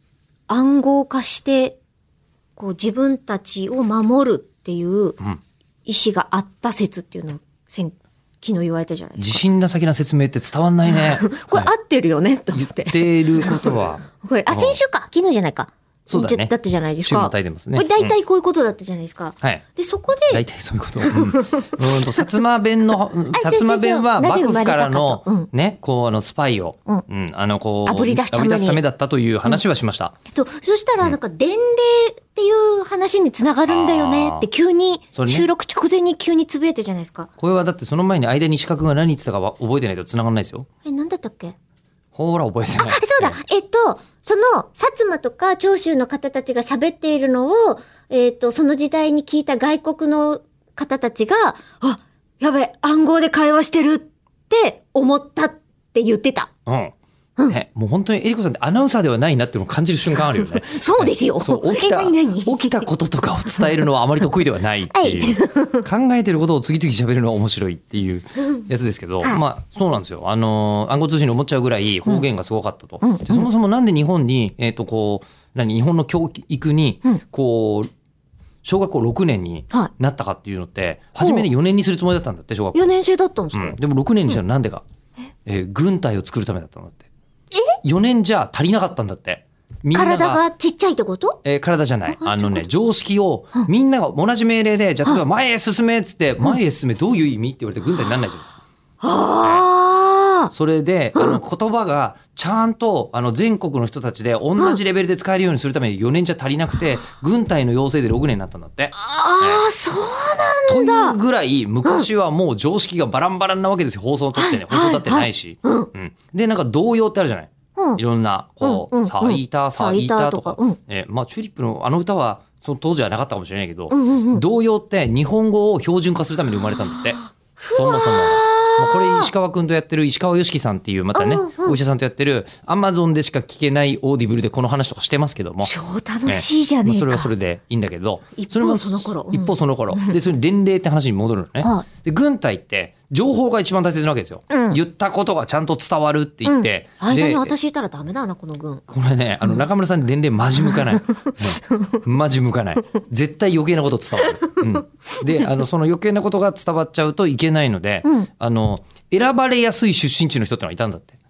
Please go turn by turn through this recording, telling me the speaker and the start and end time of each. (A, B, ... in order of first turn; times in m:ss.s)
0:00.5-0:01.8 A
0:02.6-0:05.2 A
0:05.8-0:09.4 A
0:09.2-0:11.7 B
0:10.9-0:20.4 A
0:12.5-0:14.8 B
0:16.1-0:16.5 B
0:17.0-0:18.1 B
0:20.3-0:30.1 B
0:21.0-0:22.3 A
0:23.3-0:25.5 A
0:27.8-0:28.8 A
0:30.3-0:37.3 A
0:33.7-0:34.5 B
0:35.1-0:35.5 B
0:37.4-0:40.7 B
0:40.8-0:41.6 A
0:42.1-0:43.4 B
0:42.8-0:56.5 A
0:56.7-0:56.9 B
0:57.5-1:17.9 B
1:00.4-1:02.9 A
1:04.9-1:05.8 A
1:13.0-1:13.5 A
1:18.6-1:22.8 B
1:21.2-1:21.4 A
1:22.7-1:23.8 A
1:23.5-1:24.8 B
1:25.4-1:27.1 B
1:27.8-1:30.4 B
1:29.9-1:31.4 A
1:31.4-1:38.5 B
1:32.2-1:32.7 A
1:39.0-1:40.5 A
1:40.5-1:49.6 B
1:48.9-1:51.2 A
1:50.7-2:07.2 B
1:54.4-1:55.9 A
1:57.8-1:58.0 A
1:58.6-2:00.8 A
2:03.9-2:04.4 A
2:06.9-2:09.3 A
2:07.7-2:15.7 B
2:11.1-2:11.8 A
2:15.6-2:17.3 A
2:16.3-2:27.5 B
2:18.4-2:20.2 A
2:21.6-2:21.8 A
2:24.5-2:24.8 A
2:26.4-2:28.8 A
2:28.9-2:41.2 B
2:30.7-2:31.3 A